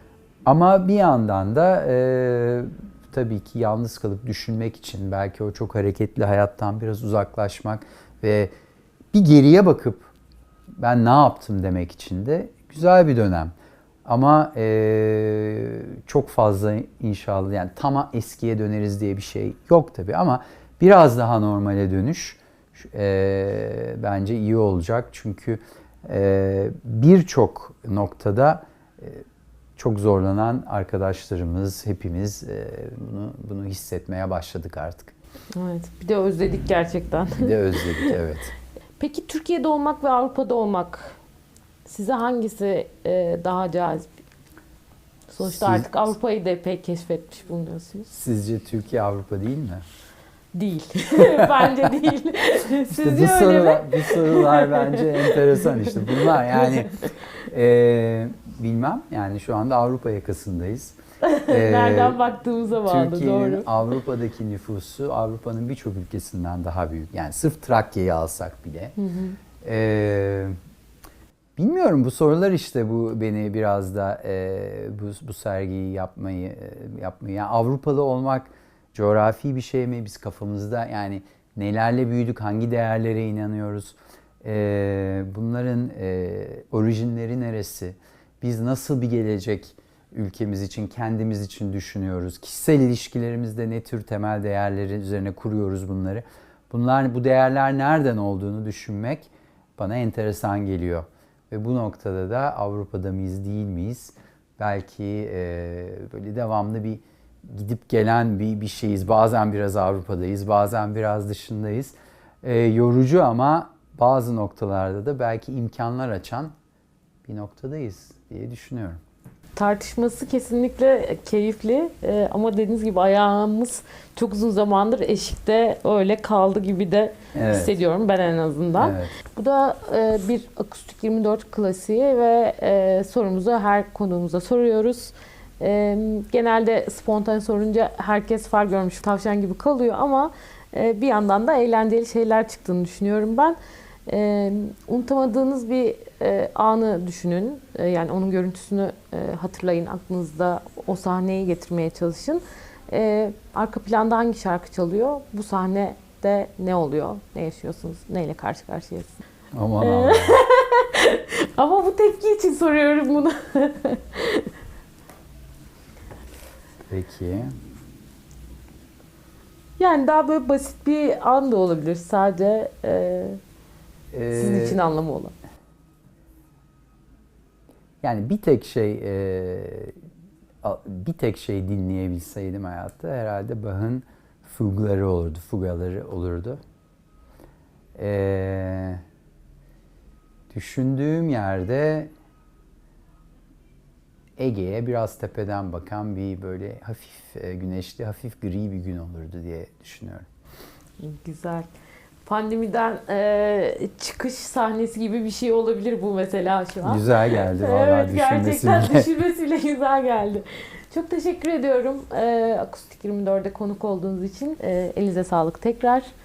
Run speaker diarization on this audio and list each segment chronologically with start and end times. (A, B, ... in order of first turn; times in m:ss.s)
0:00.5-0:08.5 A
0:09.1-0:10.1 A
0:10.8-0:13.5 A
0:14.0-0:29.2 A
0:29.8-0:35.2 A
0:35.6-0:38.2 B
0:37.4-0:38.5 A
0:39.0-0:41.2 B
0:41.9-0:44.1 B
0:45.3-0:48.1 B
0:45.4-0:46.1 A
0:48.1-0:49.8 A
0:50.5-0:57.0 B
0:51.2-0:51.7 A
0:52.9-1:01.0 A
1:01.2-1:03.7 B
1:01.5-1:02.2 A
1:02.8-1:09.0 A
1:09.0-1:09.4 B
1:09.6-1:10.6 A
1:11.6-1:56.5 A
1:57.2-1:59.0 A
1:59.6-2:39.2 B
2:07.3-2:07.8 A
2:08.8-2:09.2 A
2:39.5-2:40.4 A
2:39.8-2:44.5 B
2:46.9-2:47.5 A
2:49.8-2:53.4 B
2:54.1-2:54.8 A
2:54.3-2:55.3 B
2:58.0-3:00.0 A
3:00.6-3:06.6 A
3:08.0-3:09.0 A
3:10.5-3:12.1 A
3:14.4-3:20.3 A
3:21.0-3:21.7 B
3:22.2-3:36.1 B
3:26.8-3:29.1 A